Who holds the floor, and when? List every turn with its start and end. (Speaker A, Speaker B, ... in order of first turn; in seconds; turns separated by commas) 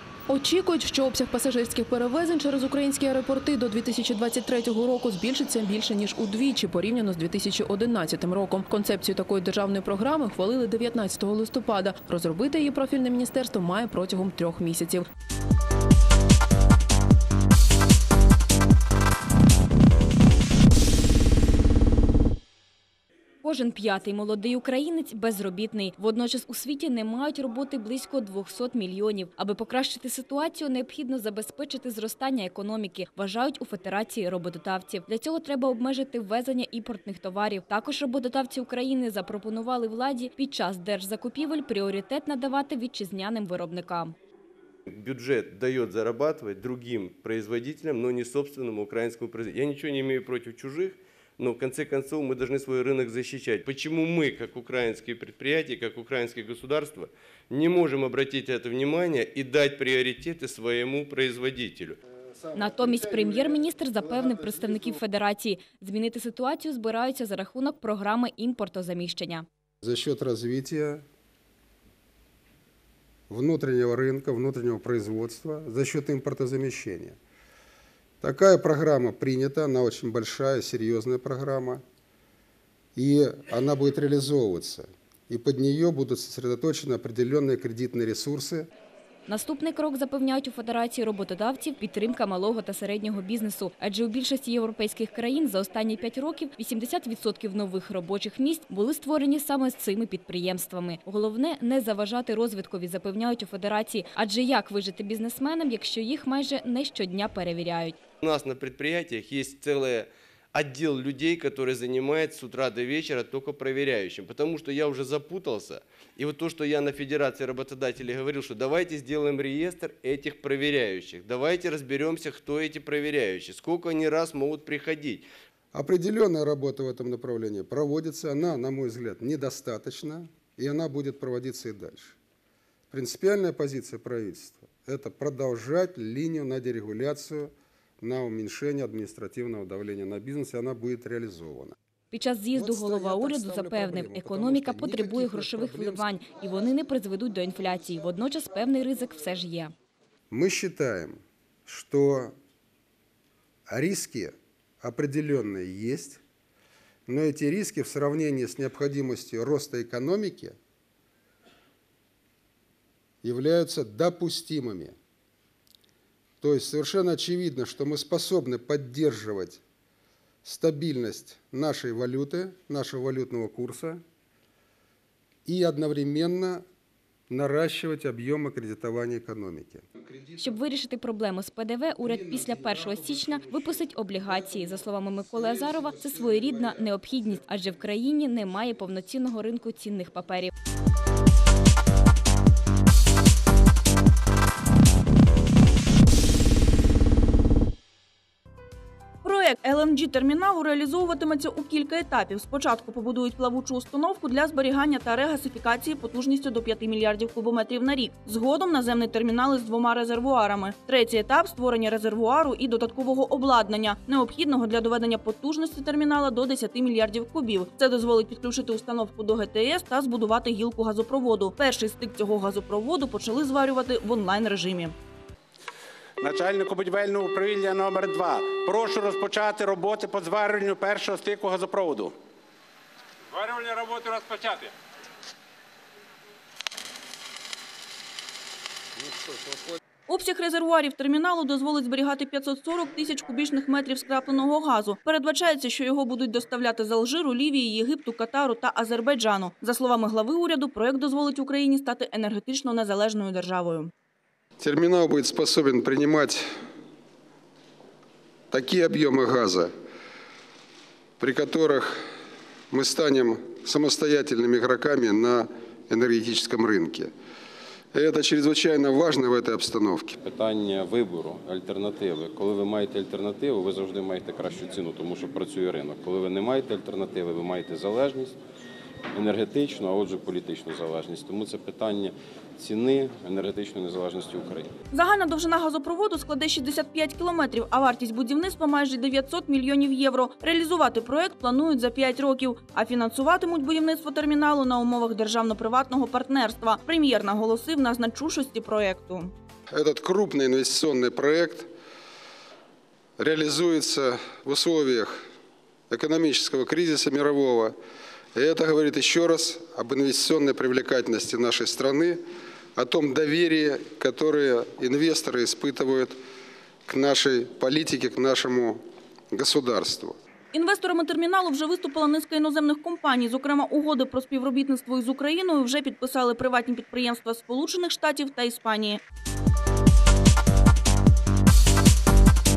Speaker A: 0.3-15.1, Speaker B: 23.4-44.2, Speaker C: 44.9-62.0, Speaker B: 62.5-69.5, Speaker D: 69.8-71.0, Speaker D: 73.3-77.2, Speaker D: 78.2-81.8, Speaker D: 83.0-88.7, Speaker B: 89.3-108.0, Speaker C: 108.2-125.3, Speaker D: 125.7-132.2, Speaker D: 132.9-141.8, Speaker B: 142.1-149.7, Speaker D: 142.5-146.1, Speaker D: 150.3-152.3, Speaker D: 153.7-156.2, Speaker D: 157.1-160.6, Speaker D: 163.2-165.0, Speaker D: 166.4-169.6, Speaker D: 170.4-174.0, Speaker D: 175.5-176.6, Speaker D: 177.3-180.6, Speaker B: 180.4-190.5, Speaker D: 182.0-188.5, Speaker E: 199.2-224.9, Speaker F: 226.2-232.1, Speaker F: 233.3-234.7, Speaker E: 240.1-253.9, Speaker D: 254.6-256.6, Speaker D: 258.5-259.7, Speaker D: 261.2-262.0, Speaker D: 262.7-267.1, Speaker D: 267.9-270.2, Speaker G: 270.2-278.4, Speaker G: 279.1-284.7, Speaker E: 284.9-299.3, Speaker D: 299.7-301.7, Speaker D: 303.2-305.2, Speaker D: 305.9-307.8, Speaker D: 308.4-312.2, Speaker D: 312.8-316.2, Speaker D: 316.9-320.2, Speaker E: 320.5-329.0